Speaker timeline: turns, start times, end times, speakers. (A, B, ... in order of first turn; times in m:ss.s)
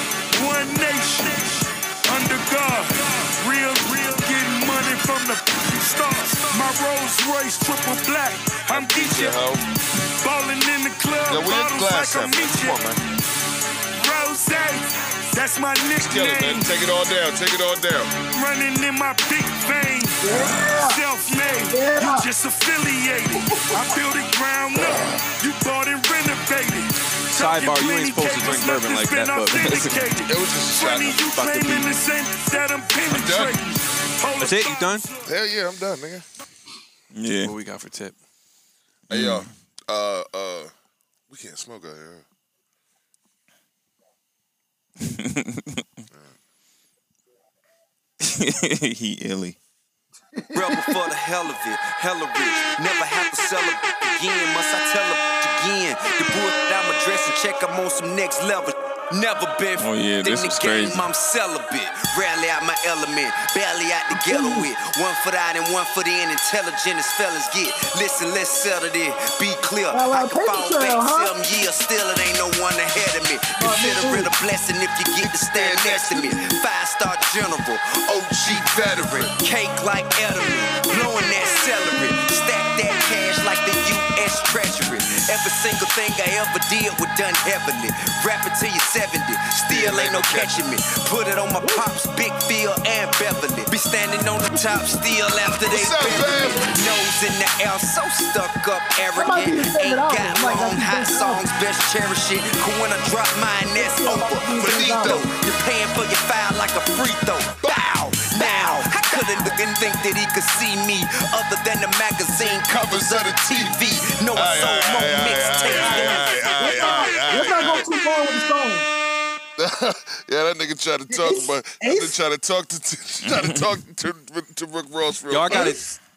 0:00.3-0:09.5 A
0:08.7-0:09.6 B
0:10.2-0:12.8 A
0:11.3-0:13.0 B
0:13.9-0:16.7 A
0:16.0-0:18.2 B
0:18.3-0:35.3 A
0:20.2-0:21.0 C
0:20.3-0:20.6 B
0:21.7-0:22.3 C
0:24.7-0:25.3 B
0:27.4-0:30.0 D
0:30.2-0:31.3 B
0:31.2-0:31.9 D
0:33.1-0:33.6 B
0:34.4-0:35.0 D
0:35.2-0:36.2 B
0:37.1-0:37.5 E
0:37.4-0:38.2 D
0:39.1-0:39.5 E
0:39.1-0:40.7 B
0:41.3-0:42.2 B
0:45.0-0:45.8 E
0:48.2-0:49.6 E
0:50.4-0:51.0 C
0:50.5-1:56.8 F
0:59.8-1:01.1 E
1:04.1-1:04.7 C
1:09.9-1:11.3 C
1:13.6-1:14.3 C
1:15.2-1:16.5 B
1:18.1-1:19.3 B
1:29.7-1:30.6 B
1:31.6-1:31.8 C
1:34.5-1:34.9 B
1:35.7-1:36.7 B
1:39.1-1:41.4 C
1:43.8-1:45.2 C
1:44.5-1:45.3 B
1:52.4-1:57.8 B
1:56.5-1:58.9 C
1:59.6-2:05.8 B
2:01.1-2:02.2 C
2:03.2-2:03.7 E
2:05.3-2:05.8 D
2:05.5-2:06.0 C